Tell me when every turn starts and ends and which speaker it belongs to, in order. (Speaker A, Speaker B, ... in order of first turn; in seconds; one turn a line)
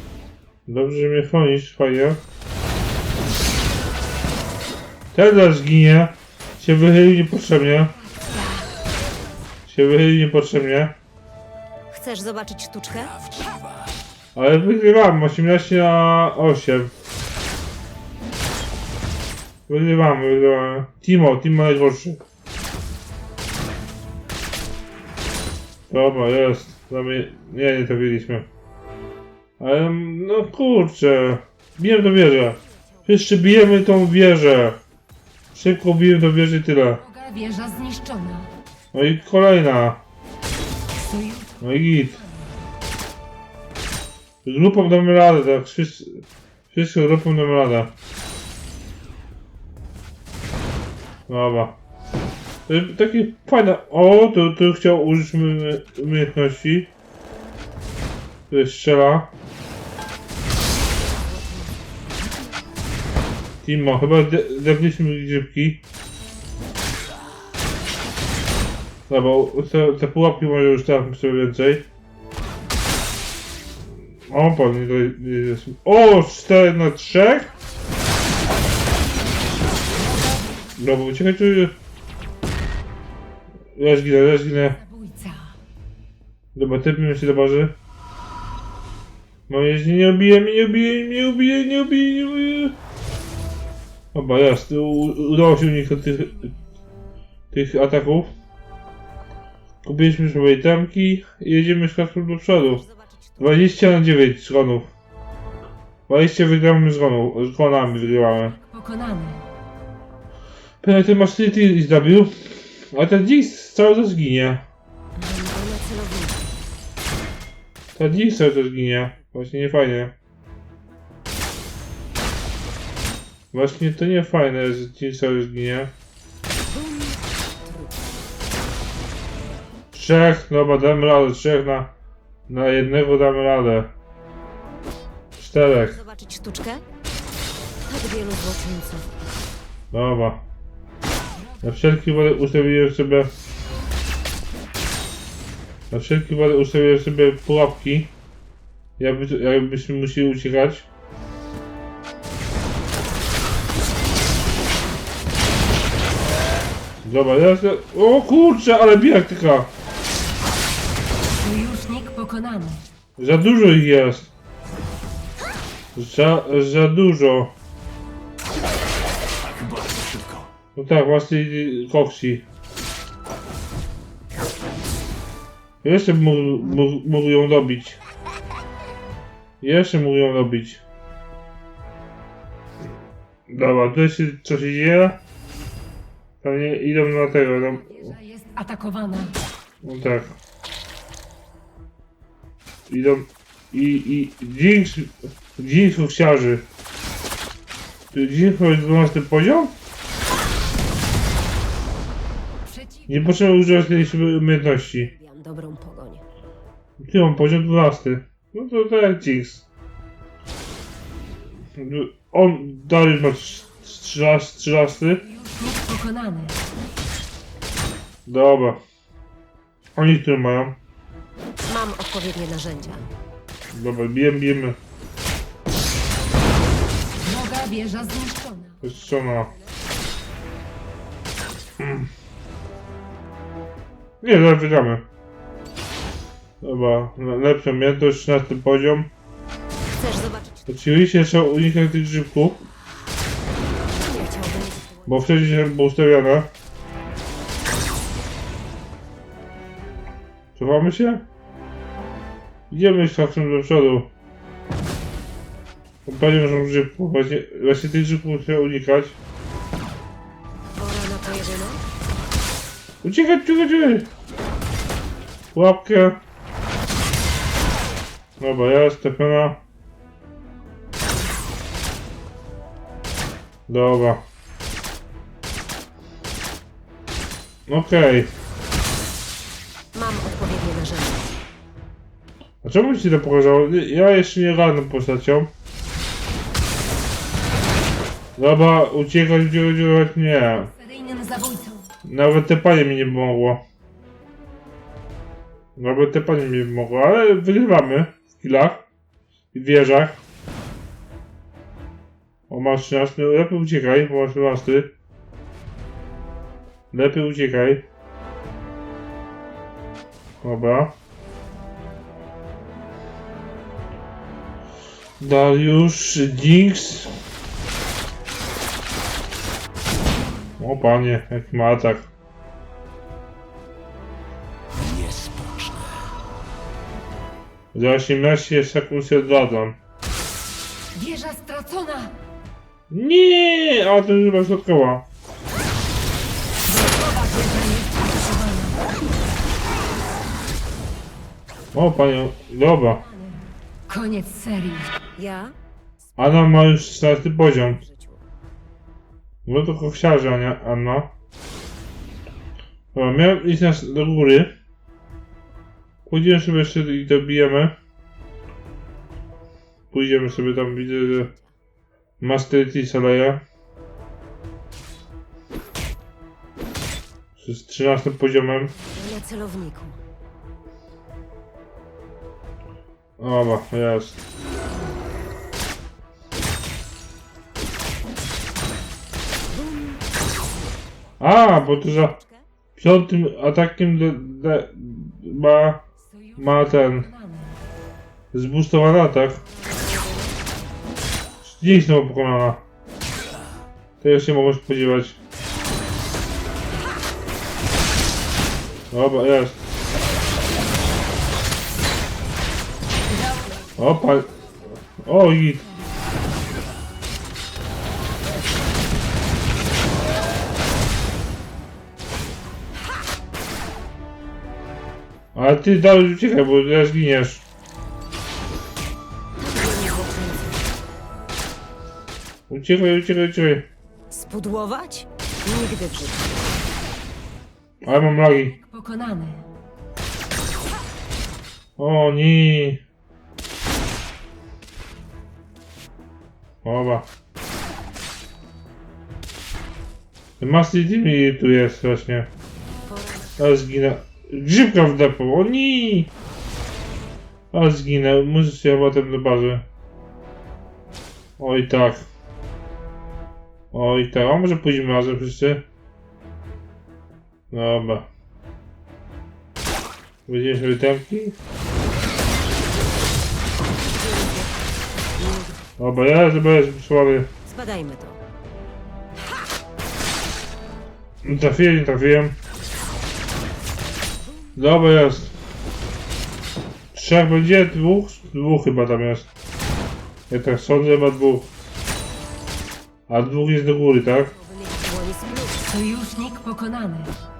Speaker A: 0.7-2.2
Speaker A: 5.1-7.9
Speaker A: 9.7-10.9
Speaker B: 11.9-13.2
Speaker A: 14.3-16.9
Speaker A: 19.7-22.2
Speaker A: 25.9-28.4
Speaker A: 29.6-34.8
Speaker B: 32.5-33.1
Speaker A: 35.5-37.0
Speaker C: 37.0-38.5
Speaker A: 38.9-40.0
Speaker C: 40.9-42.5
Speaker A: 41.6-42.2
Speaker A: 44.4-47.9
Speaker A: 51.3-51.8
Speaker A: 52.7-56.9
Speaker A: 58.5-59.3
Speaker B: 60.9-62.6
Speaker A: 63.6-65.8
Speaker A: 69.1-71.9
Speaker A: 74.3-77.5
Speaker C: 79.9-80.7
Speaker A: 80.8-81.7
Speaker A: 83.8-84.8
Speaker C: 84.7-85.6
Speaker A: 86.5-87.7
Speaker A: 89.5-92.8
Speaker A: 94.1-96.5
Speaker C: 96.0-96.5
Speaker A: 97.5-98.3
Speaker A: 99.8-102.8
Speaker B: 102.6-103.7
Speaker A: 103.4-104.9
Speaker A: 106.1-108.5
Speaker C: 108.5-109.4
Speaker A: 110.8-114.6
Speaker B: 115.2-116.6
Speaker A: 117.9-120.1
Speaker A: 123.5-125.9
Speaker B: 126.6-128.1
Speaker A: 129.9-131.9
Speaker A: 132.5-133.9
Speaker A: 135.4-136.0
Speaker B: 135.8-136.8
Speaker B: 137.8-139.1
Speaker A: 139.9-140.4
Speaker A: 141.6-143.3
Speaker A: 145.9-148.1
Speaker A: 149.0-150.9
Speaker A: 157.0-159.7
Speaker C: 161.4-162.8
Speaker A: 163.2-164.3
Speaker A: 165.9-167.5
Speaker A: 170.7-172.4
Speaker A: 175.8-178.0
Speaker A: 179.6-180.8
Speaker A: 183.5-185.2
Speaker A: 186.4-188.1
Speaker C: 187.4-189.4
Speaker A: 189.8-190.4
Speaker A: 192.9-196.7
Speaker A: 198.1-199.8
Speaker C: 202.7-203.2
Speaker A: 203.1-205.1
Speaker B: 204.9-206.2
Speaker A: 207.0-209.7
Speaker A: 211.8-215.2
Speaker C: 215.2-216.6
Speaker A: 218.3-218.8
Speaker A: 220.0-220.8
Speaker B: 221.6-223.1
Speaker A: 223.7-224.8
Speaker C: 227.2-228.8
Speaker A: 228.8-229.5
Speaker A: 231.8-232.1
Speaker A: 234.2-235.0
Speaker A: 236.6-239.1
Speaker B: 239.9-240.7
Speaker A: 240.7-242.7
Speaker B: 243.8-245.6
Speaker A: 245.1-246.5
Speaker A: 250.6-251.2
Speaker A: 252.7-254.1
Speaker A: 256.0-259.2
Speaker B: 260.8-261.8
Speaker A: 263.0-264.1
Speaker A: 265.5-266.2
Speaker A: 268.4-269.6
Speaker A: 273.7-274.2
Speaker A: 277.7-278.3
Speaker B: 279.9-281.3
Speaker A: 282.6-285.5
Speaker A: 288.4-290.7
Speaker C: 290.6-291.9
Speaker A: 292.0-293.6
Speaker A: 295.8-298.8
Speaker A: 299.5-300.2
Speaker A: 302.5-304.9
Speaker A: 306.9-307.8
Speaker A: 310.4-310.9
Speaker A: 315.2-317.1
Speaker A: 320.6-322.1
Speaker A: 327.7-329.8
Speaker C: 330.9-332.1
Speaker A: 332.9-335.1
Speaker C: 336.6-338.9
Speaker A: 341.7-343.0
Speaker C: 343.0-344.9
Speaker B: 345.1-345.5
Speaker A: 346.2-347.8
Speaker B: 347.6-348.2
Speaker A: 349.4-351.1
Speaker A: 352.9-354.5
Speaker A: 356.1-357.7
Speaker A: 359.9-361.3
Speaker B: 360.3-361.5
Speaker A: 362.2-363.4
Speaker A: 367.4-368.7
Speaker B: 368.7-370.0
Speaker A: 373.2-374.2
Speaker B: 379.5-380.1
Speaker A: 381.2-382.2
Speaker B: 381.6-382.4
Speaker A: 382.8-385.8
Speaker C: 386.2-387.6
Speaker A: 386.4-387.1
Speaker A: 388.3-389.4
Speaker B: 389.4-390.4
Speaker A: 391.4-392.6
Speaker A: 394.0-395.2
Speaker A: 398.9-399.6
Speaker A: 403.8-404.3
Speaker A: 404.9-405.6
Speaker A: 415.3-417.4
Speaker B: 419.4-420.8
Speaker A: 422.5-423.7
Speaker B: 424.1-426.6
Speaker A: 427.8-428.5
Speaker C: 428.2-429.5
Speaker A: 431.8-432.8
Speaker A: 436.6-437.1
Speaker A: 440.4-442.3
Speaker B: 442.8-443.6
Speaker A: 443.4-446.1
Speaker A: 447.5-449.6
Speaker A: 451.4-452.1
Speaker A: 453.7-455.6
Speaker A: 457.5-458.1
Speaker A: 460.3-461.4
Speaker B: 463.7-465.7
Speaker A: 465.8-467.3
Speaker B: 467.4-468.2
Speaker A: 471.2-472.4
Speaker A: 474.6-475.3
Speaker A: 476.9-479.3
Speaker A: 480.3-481.5
Speaker A: 483.1-484.3
Speaker B: 484.2-485.8
Speaker C: 485.6-487.1